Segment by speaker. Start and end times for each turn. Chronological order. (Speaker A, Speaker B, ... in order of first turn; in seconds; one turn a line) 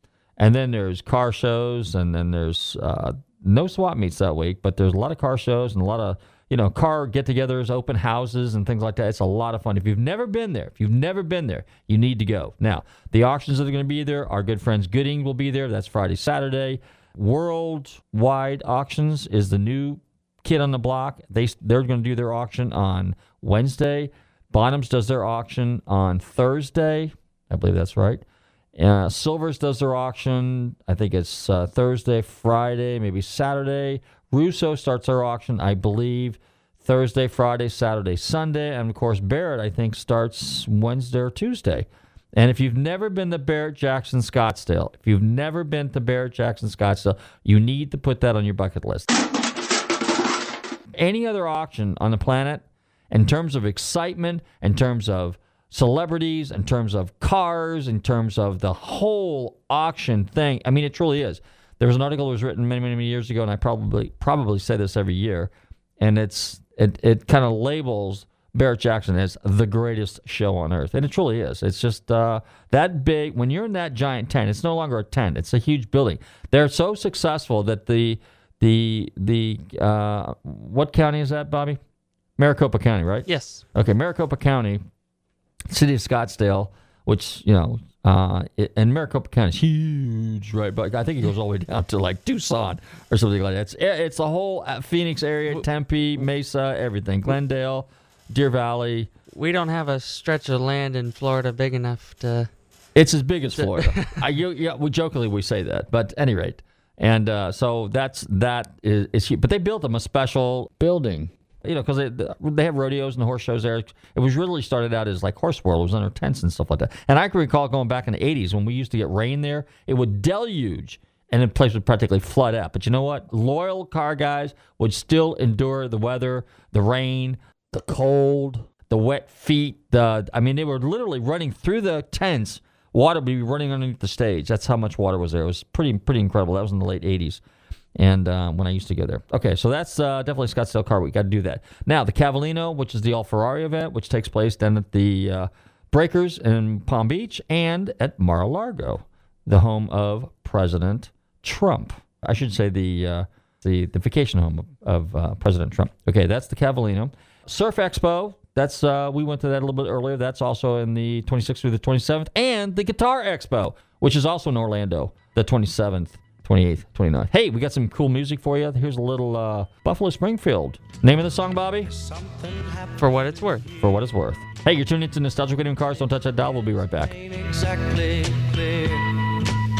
Speaker A: 0.4-28.2
Speaker A: 28.8-49.1
Speaker A: 50.9-81.8
Speaker A: 82.4-84.8
Speaker B: 83.2-83.6
Speaker A: 85.7-99.1
Speaker B: 99.3-102.5
Speaker A: 102.9-137.4
Speaker B: 103.5-104.2
Speaker A: 137.9-171.9
Speaker C: 171.8-173.2
Speaker B: 173.0-173.6
Speaker A: 173.8-177.1
Speaker C: 176.6-179.3